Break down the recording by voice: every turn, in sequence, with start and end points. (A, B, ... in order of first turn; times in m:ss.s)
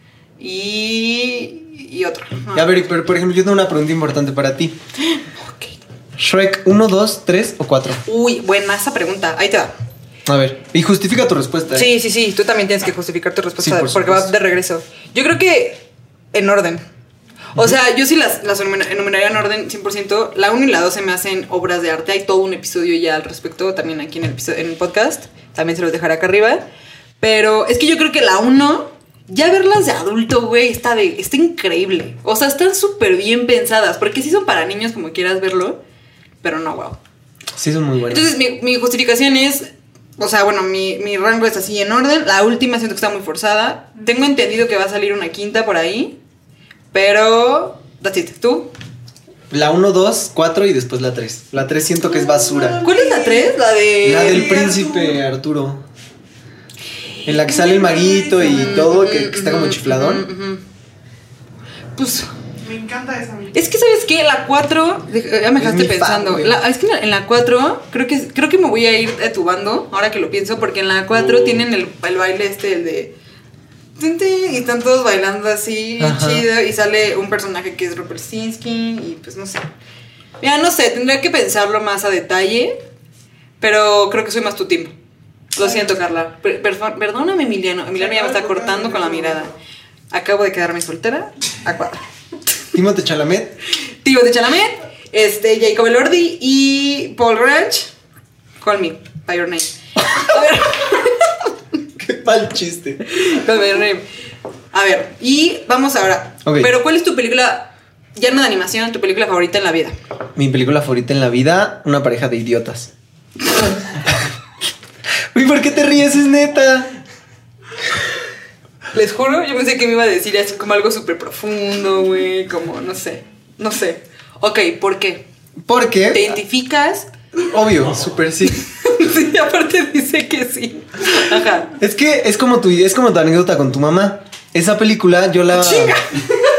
0:00.4-0:02.7 A
0:02.5-0:04.8 B
0:05.1-0:05.8 A
0:06.2-0:08.0 B
0:08.0-0:09.7 A
0:10.3-0:11.9 B
0:11.7-0:16.8 A
0:13.6-0:14.3 B
0:17.6-0:26.6 A
0:27.2-0:35.8 A
0:36.4-0:37.0 A
0:37.6-0:38.3 B
0:38.1-0:46.2 A
0:46.9-0:48.7 A
0:49.5-0:52.8 B
0:52.0-0:55.2 C
0:52.8-0:54.7 A
0:54.0-0:55.8 B
0:57.2-1:00.3 B
0:57.3-0:58.9 C
0:58.5-1:00.6 A
1:02.0-1:02.3 A
1:02.6-1:03.6 C
1:03.5-1:13.1 A
1:05.6-1:06.6 B
1:11.1-1:11.6 B
1:14.0-1:19.6 A
1:16.0-1:16.5 B
1:20.4-1:22.8 A
1:23.6-1:24.9 A
1:25.6-1:29.5 A
1:28.0-1:29.6 C
1:30.1-1:32.0 A
1:32.7-1:33.6 B
1:34.0-1:37.9 A
1:38.6-1:41.5 A
1:42.0-1:43.0 B
1:43.1-1:44.1 A
1:44.7-1:50.0 A
1:46.4-1:46.7 B
1:50.4-1:52.9 B
1:53.9-1:54.3 B
1:55.3-1:56.9 B
1:58.9-2:05.2 A
2:05.6-2:06.4 B
2:06.1-2:07.1 A
2:07.5-2:08.6 B
2:08.4-2:11.7 A
2:11.8-2:16.0 B
2:15.5-2:16.4 A